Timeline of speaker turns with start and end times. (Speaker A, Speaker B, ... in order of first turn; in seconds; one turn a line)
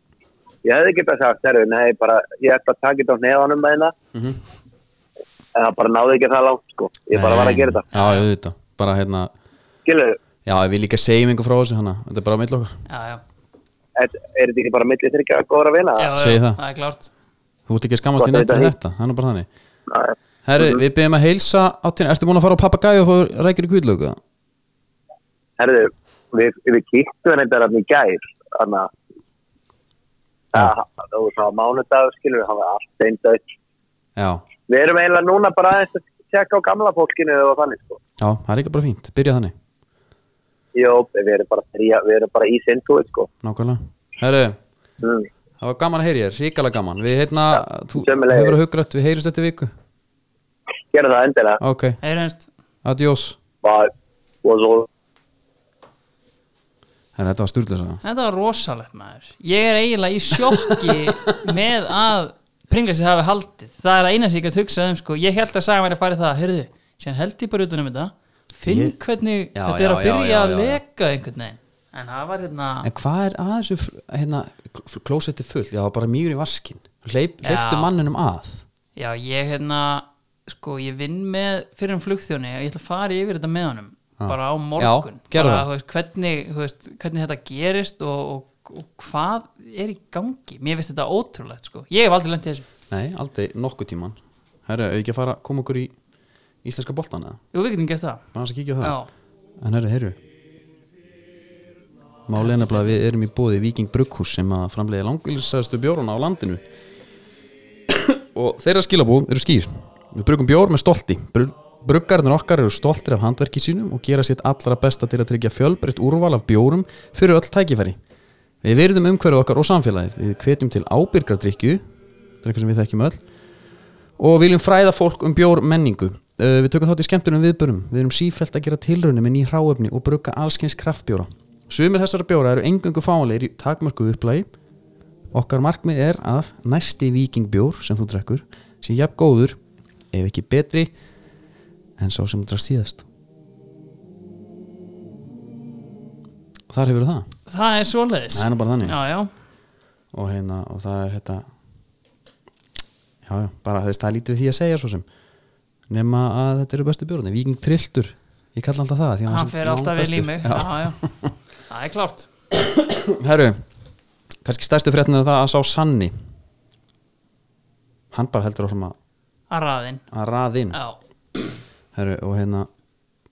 Speaker A: 0.6-3.9
Speaker B: 4.1-4.4
Speaker A: 5.5-7.8
Speaker B: 7.1-9.3
Speaker C: 7.9-8.3
Speaker A: 9.9-10.2
Speaker B: 10.5-12.8
Speaker C: 12.9-13.2
Speaker A: 14.0-16.1
Speaker C: 16.0-17.1
Speaker B: 16.1-16.6
Speaker B: 17.7-19.5
Speaker A: 18.2-18.7
Speaker B: 20.4-24.2
Speaker A: 25.6-28.9
Speaker A: 30.5-33.4
Speaker B: 34.2-34.4
Speaker A: 34.7-38.0
Speaker B: 38.2-39.5
Speaker A: 40.8-43.3
Speaker B: 43.4-44.6
Speaker A: 45.0-45.3
Speaker B: 45.6-49.7
Speaker A: 48.0-48.6
Speaker A: 50.9-51.6
Speaker B: 51.6-52.0
Speaker C: 52.0-52.5
Speaker B: 52.9-53.4
Speaker A: 53.6-53.9
Speaker A: 54.4-54.9
Speaker B: 57.2-58.0
Speaker C: 58.0-72.9
Speaker B: 68.7-69.0
Speaker B: 69.5-70.8
Speaker B: 72.8-78.6
Speaker C: 77.4-77.9
Speaker C: 79.0-92.7
Speaker B: 84.2-85.7
Speaker B: 92.9-95.9
Speaker B: 96.6-97.4
Speaker C: 97.5-98.3
Speaker B: 98.3-99.0
Speaker C: 98.8-99.1
Speaker B: 99.6-100.2
Speaker B: 102.3-106.6
Speaker B: 107.9-118.0
Speaker B: 118.6-121.8
Speaker B: 122.4-123.2
Speaker B: 124.2-134.5
Speaker B: 135.3-139.6
Speaker B: 140.1-140.9
Speaker B: 142.0-143.0
Speaker B: 146.7-147.3
Speaker C: 147.5-149.3
Speaker B: 148.3-148.9
Speaker B: 150.1-151.5
Speaker B: 153.3-155.1
Speaker B: 155.9-161.3
Speaker C: 159.3-161.0
Speaker C: 161.7-162.3
Speaker B: 162.5-163.6
Speaker B: 164.4-166.1
Speaker B: 168.1-168.9
Speaker C: 169.5-170.0
Speaker B: 170.1-170.8
Speaker C: 170.7-171.6
Speaker B: 171.9-172.7